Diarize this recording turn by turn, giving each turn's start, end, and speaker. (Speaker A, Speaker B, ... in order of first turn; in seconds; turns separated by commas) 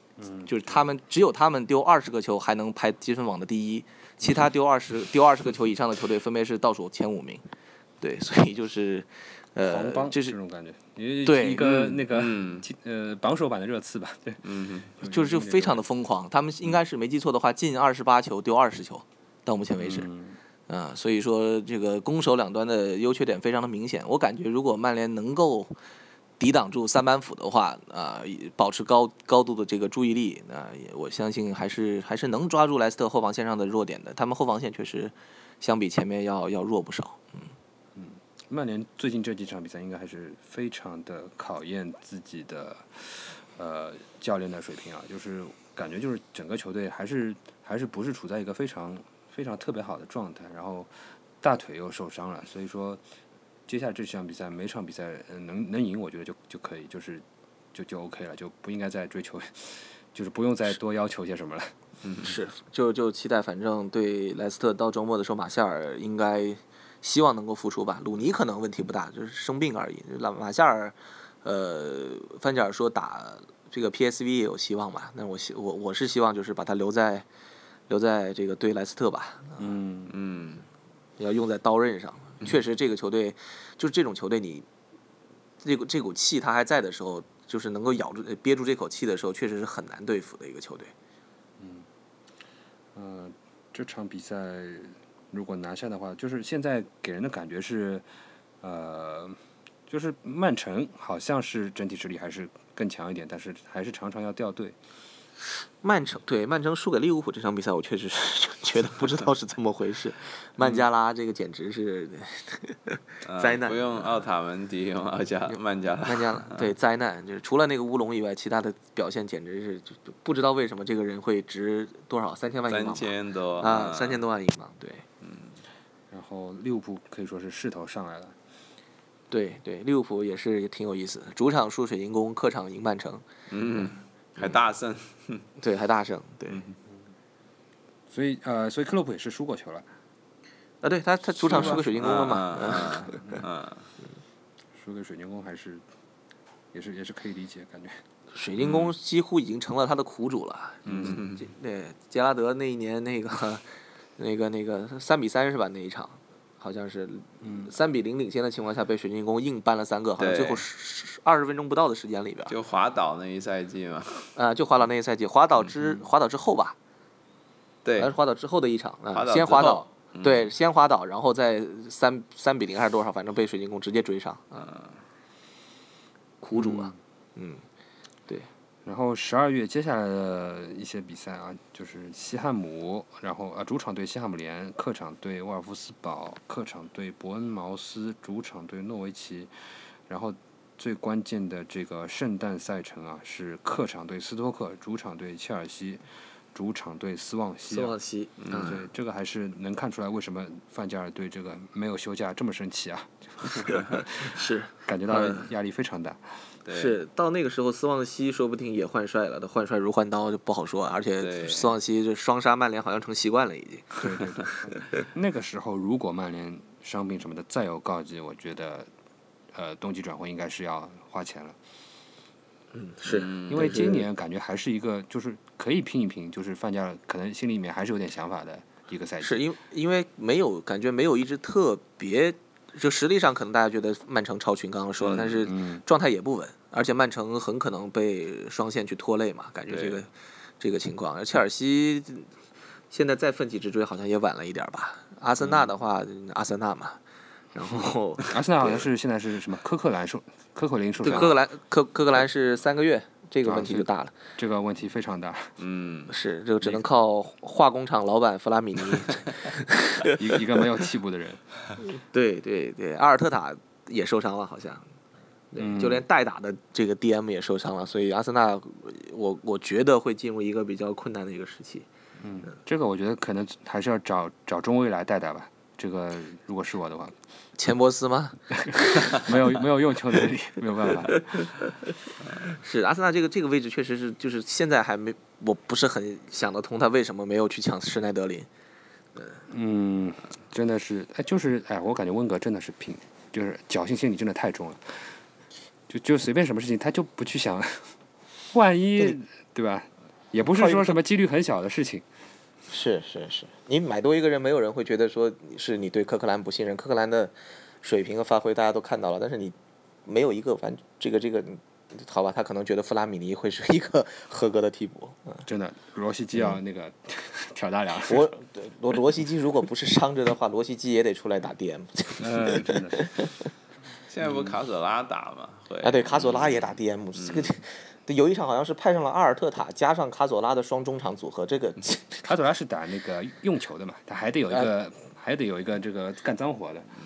Speaker A: 0.2-0.7, Speaker B: 0.5-7.4, Speaker B: 8.0-10.3, Speaker A: 9.6-15.8, Speaker B: 11.2-11.8, Speaker C: 11.6-12.7, Speaker C: 14.4-14.9, Speaker B: 15.0-20.1, Speaker A: 19.8-20.4, Speaker B: 20.7-25.7, Speaker B: 26.4-37.5, Speaker A: 38.0-53.0, Speaker A: 53.7-61.7, Speaker C: 62.0-62.3, Speaker B: 62.2-77.3, Speaker B: 77.9-79.8, Speaker A: 79.6-80.1, Speaker C: 80.1-80.6, Speaker B: 81.2-84.7, Speaker B: 85.6-90.9, Speaker A: 91.6-91.9, Speaker A: 92.9-98.0, Speaker A: 98.6-104.8, Speaker B: 105.8-114.1, Speaker C: 113.2-116.7, Speaker B: 116.0-125.0, Speaker C: 122.7-124.2, Speaker C: 125.2-125.5, Speaker A: 126.1-128.3, Speaker B: 129.3-134.6, Speaker C: 133.5-135.4, Speaker B: 135.6-136.6, Speaker A: 138.1-139.9, Speaker B: 140.8-143.4, Speaker C: 141.4-143.9, Speaker A: 144.8-145.8, Speaker A: 146.7-148.0, Speaker B: 148.3-153.7, Speaker C: 148.6-148.9, Speaker C: 150.8-151.4, Speaker A: 150.9-151.2, Speaker B: 154.2-162.5, Speaker A: 157.4-157.7, Speaker C: 160.2-160.6, Speaker C: 162.5-164.3, Speaker B: 164.3-166.8, Speaker C: 167.8-168.1, Speaker B: 168.0-174.7, Speaker C: 169.1-170.5, Speaker C: 174.6-174.9, Speaker B: 176.4-177.6, Speaker A: 178.8-189.5, Speaker A: 190.1-196.0, Speaker A: 196.5-197.9, Speaker B: 197.7-198.9, Speaker C: 198.4-198.7, Speaker A: 198.5-204.3, Speaker B: 203.7-205.5, Speaker A: 204.8-206.2, Speaker C: 206.6-207.0, Speaker B: 206.7-214.0, Speaker C: 211.2-211.8, Speaker A: 214.0-218.9, Speaker A: 219.5-221.6, Speaker B: 222.7-224.0, Speaker C: 223.1-223.8, Speaker A: 223.5-229.4, Speaker B: 229.2-242.3, Speaker C: 235.0-235.3, Speaker A: 235.4-235.8, Speaker C: 239.7-240.0, Speaker B: 242.9-247.0, Speaker B: 247.5-248.8, Speaker A: 248.2-251.4, Speaker B: 251.0-254.1, Speaker A: 253.4-255.6, Speaker C: 255.6-256.1, Speaker B: 256.1-260.2, Speaker A: 260.0-261.4, Speaker B: 261.8-264.9, Speaker B: 265.5-271.9, Speaker A: 265.6-266.0, Speaker A: 272.2-277.1, Speaker B: 277.6-279.1, Speaker A: 278.6-281.5, Speaker B: 281.0-281.5, Speaker B: 282.4-288.5, Speaker A: 289.5-295.1, Speaker A: 295.9-297.9, Speaker A: 298.5-302.0, Speaker B: 300.4-301.0, Speaker B: 302.7-315.4, Speaker A: 315.4-318.3, Speaker B: 317.9-323.5, Speaker A: 322.2-323.1, Speaker C: 324.1-327.5, Speaker B: 325.8-332.3, Speaker A: 332.2-336.9